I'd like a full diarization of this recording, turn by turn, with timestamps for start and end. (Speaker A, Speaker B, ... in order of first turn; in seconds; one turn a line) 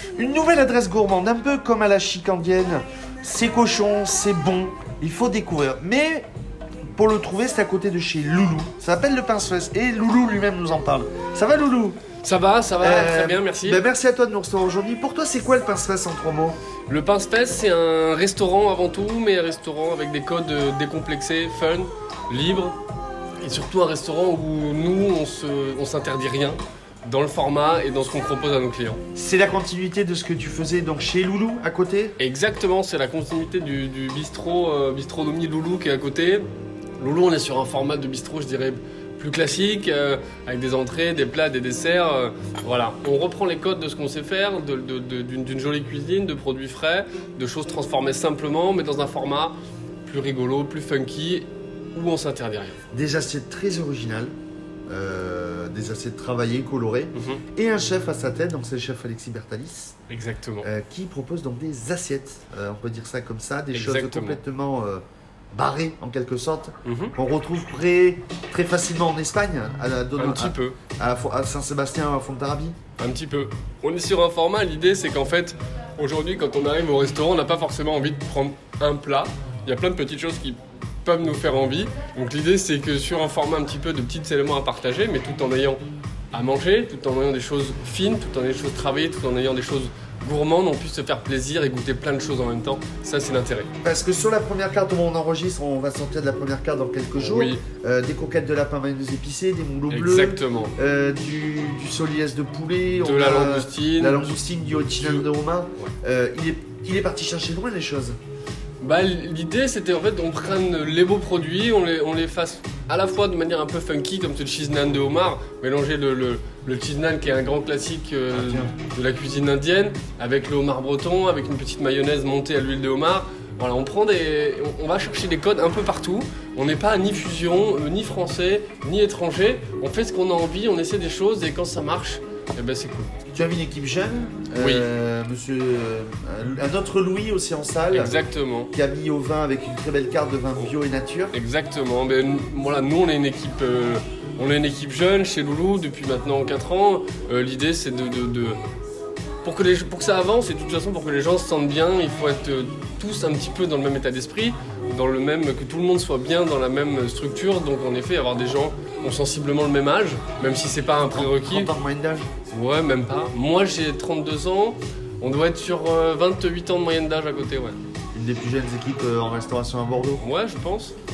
Speaker A: 0.2-6.3
Speaker A: 7.0-12.0
Speaker B: 12.2-13.8
Speaker A: 12.8-16.6
Speaker B: 16.9-22.8
Speaker B: 23.4-29.0
Speaker A: 29.1-32.2
Speaker B: 32.2-36.5
Speaker B: 37.0-49.5
Speaker B: 50.1-52.8
Speaker A: 52.9-54.3
Speaker A: 54.9-60.0
Speaker B: 57.1-57.4
Speaker B: 60.1-60.7
Speaker A: 60.6-72.8
Speaker B: 63.7-64.4
Speaker B: 66.8-67.1
Speaker B: 70.2-70.8
Speaker B: 73.0-93.7
Speaker A: 93.8-108.2
Speaker B: 97.2-97.6
Speaker B: 99.9-100.7
Speaker B: 103.0-104.3
Speaker B: 105.0-105.2
Speaker B: 108.8-133.1
Speaker A: 118.3-118.7
Speaker A: 133.3-138.2
Speaker B: 134.6-134.9
Speaker B: 137.9-138.7
Speaker A: 138.7-141.3
Speaker B: 141.3-148.6
Speaker B: 149.4-161.7
Speaker A: 161.1-162.3
Speaker B: 162.5-167.8
Speaker A: 168.1-170.2
Speaker B: 170.2-170.9